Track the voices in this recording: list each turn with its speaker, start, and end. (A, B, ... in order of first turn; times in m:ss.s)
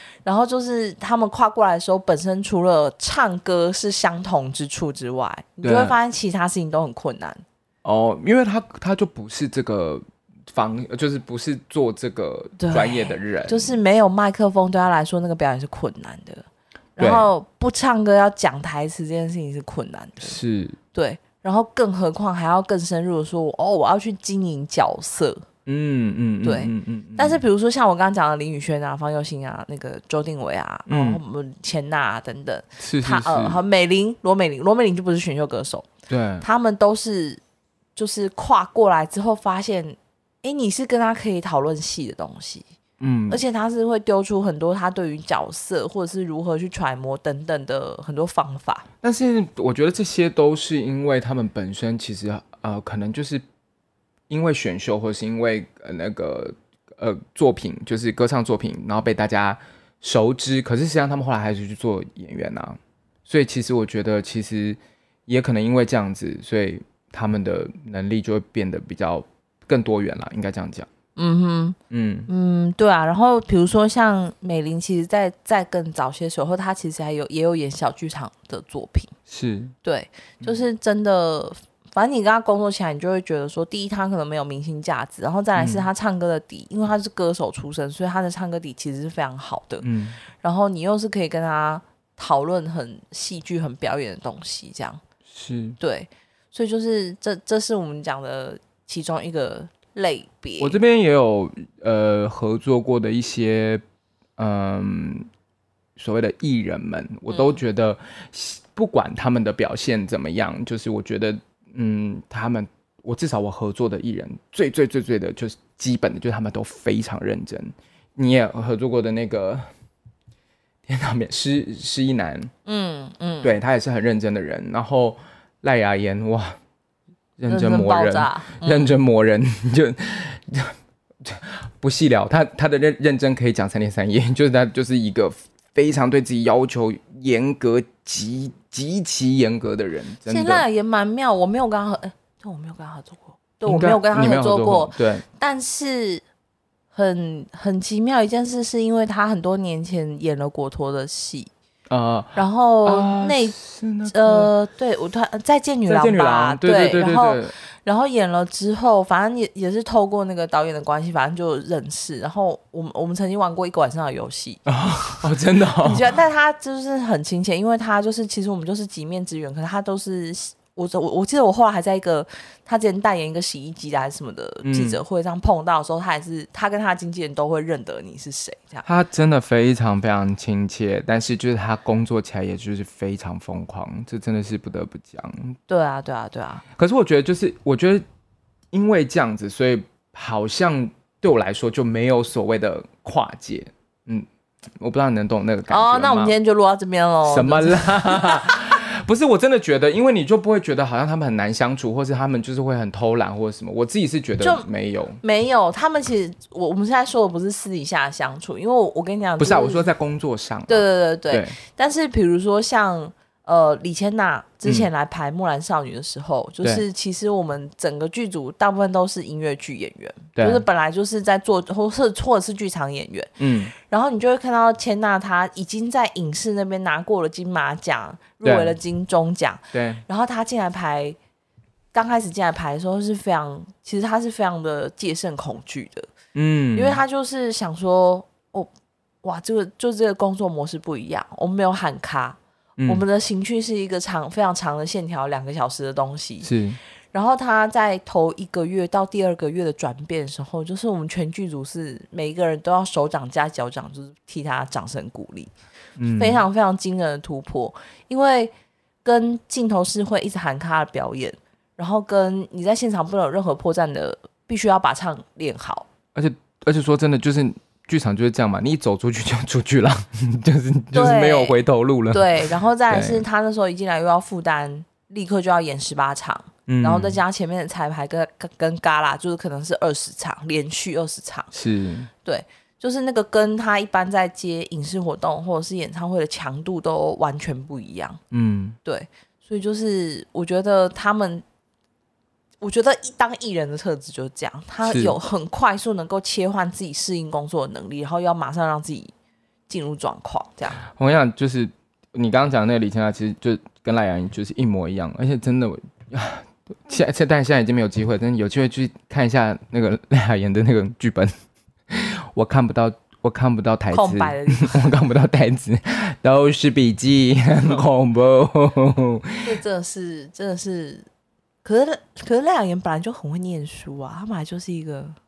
0:00.2-0:07.4 A
0:05.6-0:06.0 B
0:07.8-0:13.8 B
0:12.6-0:16.5 A
0:17.0-0:20.4 A
0:17.0-0:17.3 B
0:20.2-0:20.8 B
0:20.9-0:25.4 A
0:25.7-0:27.4 B
0:26.4-0:35.9 A
0:30.9-0:31.2 B
0:32.8-0:33.6 B
0:36.1-0:36.4 B
0:36.4-0:37.4 A
0:38.0-0:42.6 A
0:43.0-0:43.4 B
0:43.3-0:48.9 A
0:49.0-0:53.4 B
0:54.3-1:10.9 B
1:11.2-1:11.8 A
1:11.9-1:12.3 B
1:12.3-1:19.1 A
1:19.3-1:19.8 B
1:19.8-1:35.0 A
1:25.6-1:25.9 B
1:29.8-1:30.2 B
1:35.3-1:35.8 B
1:35.8-1:40.8 A
1:40.6-1:43.8 B
1:44.4-1:45.3 B
1:46.0-1:59.7 B
1:47.3-1:47.6 A
2:00.9-2:02.5 B
2:02.7-2:03.5 A
2:03.4-2:06.6 B
2:07.4-2:20.6 B
2:07.5-2:08.9 A
2:20.3-2:26.2 A
2:23.6-2:25.2 B
2:26.9-2:31.5 A
2:31.9-2:34.5 B
2:32.4-2:33.6 A
2:34.1-2:58.9 A
2:35.9-2:37.5 B
2:44.7-2:46.0 B
2:54.6-2:55.0 B
2:58.8-3:05.6 B
3:05.7-3:06.6 A
3:06.8-3:08.0 B
3:08.7-3:14.3 B
3:14.8-3:16.3 B
3:15.7-3:18.7 A
3:17.2-3:25.2 B
3:24.4-3:24.7 A
3:25.2-3:29.9 A
3:29.4-3:31.6 B
3:30.7-3:51.2 A
3:40.4-3:40.6 B
3:43.4-3:43.7 B
3:48.4-3:48.8 B
3:49.7-3:50.0 B
3:51.9-3:56.1 A
3:56.4-3:57.0 B
3:56.8-3:58.7 A
3:59.2-4:06.5 A
4:02.8-4:03.0 B
4:06.4-4:06.8 B
4:07.1-4:15.5 A
4:16.0-4:16.4 B
4:16.2-4:18.5 A
4:19.0-4:25.9 A
4:26.2-4:33.2 B
4:30.9-4:31.6 A
4:32.1-4:41.5 A
4:36.7-4:37.2 B
4:41.5-4:42.1 B
4:42.2-4:48.2 A
4:48.3-4:48.8 B
4:48.8-4:51.4 A
4:52.6-4:59.1 A
4:54.8-4:55.2 B
4:59.7-5:00.8 A
5:00.8-5:11.3 B
5:11.9-5:19.5 B
5:13.9-5:14.9 A
5:19.4-5:21.1 A
5:21.6-5:25.2 A